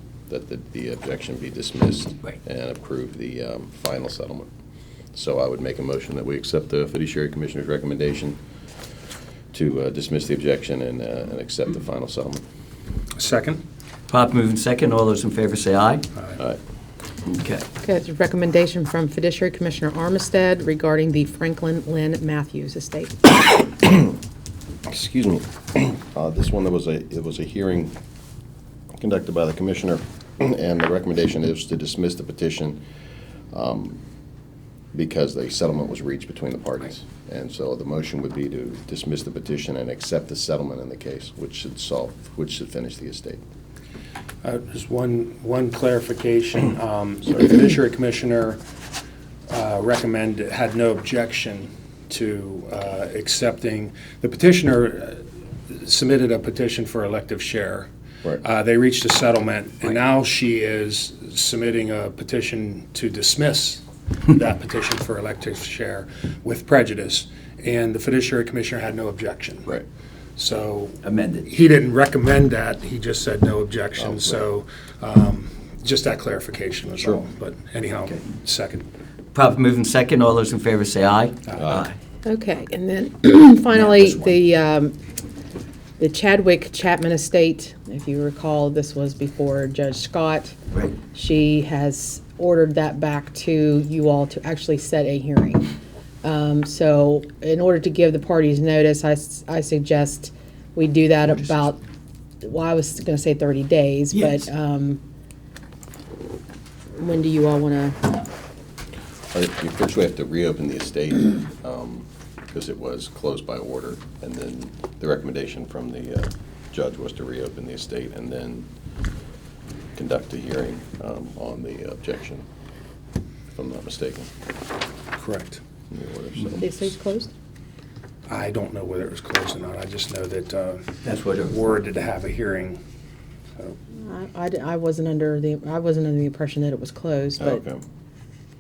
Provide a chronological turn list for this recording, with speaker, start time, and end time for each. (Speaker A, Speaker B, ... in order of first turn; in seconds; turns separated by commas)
Speaker A: 0.3-4.5, Speaker A: 5.1-8.4, Speaker A: 9.5-12.4, Speaker B: 13.2-13.6, Speaker C: 14.1-16.1, Speaker C: 17.3-17.7, Speaker D: 17.8-23.2, Speaker A: 24.9-27.9, Speaker A: 29.0-32.8, Speaker A: 33.5-34.0, Speaker A: 34.9-43.4, Speaker B: 44.4-48.6, Speaker B: 49.5-57.9, Speaker B: 58.4-69.7, Speaker B: 70.4-78.9, Speaker C: 71.0-71.5, Speaker A: 74.0-74.4, Speaker C: 79.3-81.9, Speaker A: 81.6-81.9, Speaker D: 82.2-85.0, Speaker C: 83.7-84.3, Speaker D: 86.0-90.6, Speaker D: 91.1-95.7, Speaker D: 96.2-101.8, Speaker D: 102.4-105.0, Speaker C: 104.1-104.5, Speaker D: 107.0-108.2, Speaker A: 109.3-118.7, Speaker A: 120.0-122.5, Speaker A: 123.5-124.3, Speaker B: 125.2-125.6, Speaker A: 125.9-126.9, Speaker D: 126.6-127.3, Speaker B: 128.3-130.9, Speaker C: 131.0-131.7, Speaker B: 131.5-132.8, Speaker D: 134.0-137.6, Speaker A: 137.4-137.8